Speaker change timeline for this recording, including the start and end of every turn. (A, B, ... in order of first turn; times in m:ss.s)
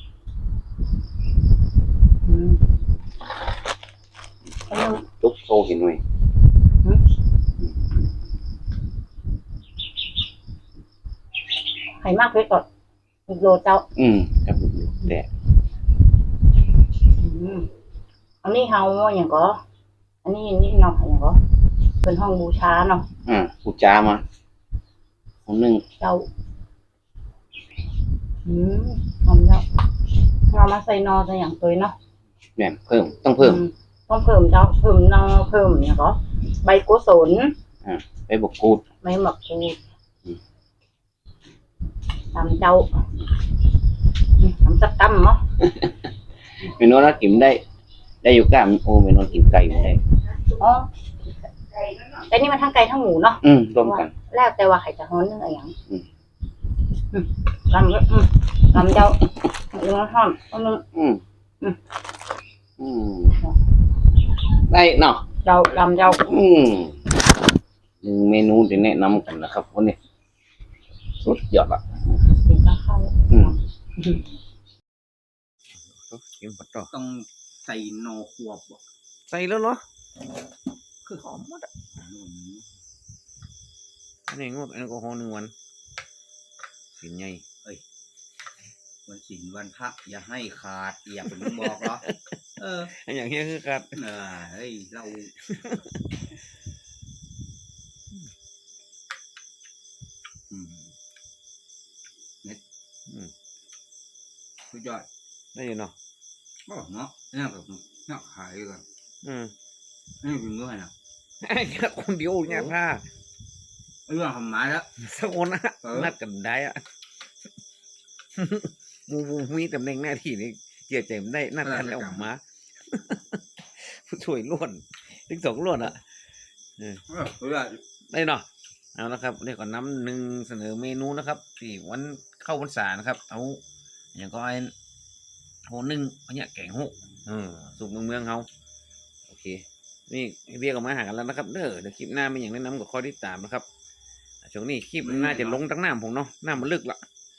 0:02.2-0:02.6 A
0:04.7-0:05.0 A
0:05.1-0:06.0 B
0:12.0-0:12.6 A
0:13.3-0:13.8 A
0:14.0-0:15.3 B
0:17.2-0:17.7 A
0:18.4-0:19.6 A
0:20.2-0:21.4 A
0:22.0-0:23.1 A
0:23.3-0:24.2 B
0:25.5-0:25.8 B
0:26.0-0:26.3 A
0:28.4-0:29.6 A
0:30.5-0:32.0 A
0:32.6-0:33.6 B
0:33.4-0:37.5 A
0:37.8-0:38.8 B
0:39.0-0:39.8 A
0:42.3-0:42.9 A
0:44.4-0:45.4 A
0:46.6-0:47.6 B
0:48.2-0:50.0 B
0:50.6-0:50.9 A
0:52.2-0:55.7 A
0:53.4-0:54.1 B
0:57.1-1:00.8 A
1:00.9-1:01.2 B
1:02.8-1:03.4 B
1:04.7-1:05.2 B
1:05.4-1:06.2 A
1:06.1-1:07.0 B
1:08.0-1:10.0 B
1:11.2-1:11.8 B
1:12.4-1:14.2 A
1:15.9-1:16.9 B
1:16.9-1:18.8 C
1:19.3-1:19.8 B
1:21.1-1:21.7 B
1:22.0-1:22.6 C
1:24.3-1:25.5 B
1:26.9-1:27.4 B
1:29.1-1:32.0 C
1:31.5-1:32.1 B
1:32.6-1:32.9 C
1:32.9-1:34.0 B
1:33.9-1:35.4 C
1:40.5-1:40.9 C
1:44.7-1:45.1 C
1:45.6-1:45.9 B
1:46.7-1:48.8 C
1:49.2-1:49.5 B
1:50.2-1:50.9 C
1:51.4-1:53.0 B
1:52.5-1:52.8 C
1:54.1-1:54.9 C
1:55.0-1:56.8 B
1:55.8-1:56.1 C
1:58.4-2:06.0 B
2:01.6-2:02.3 C
2:07.1-2:07.8 C
2:08.1-2:13.6 B
2:14.2-2:14.7 B
2:15.7-2:18.5 B
2:19.3-2:23.7 B
2:24.4-2:27.0 B
2:25.0-2:25.6 C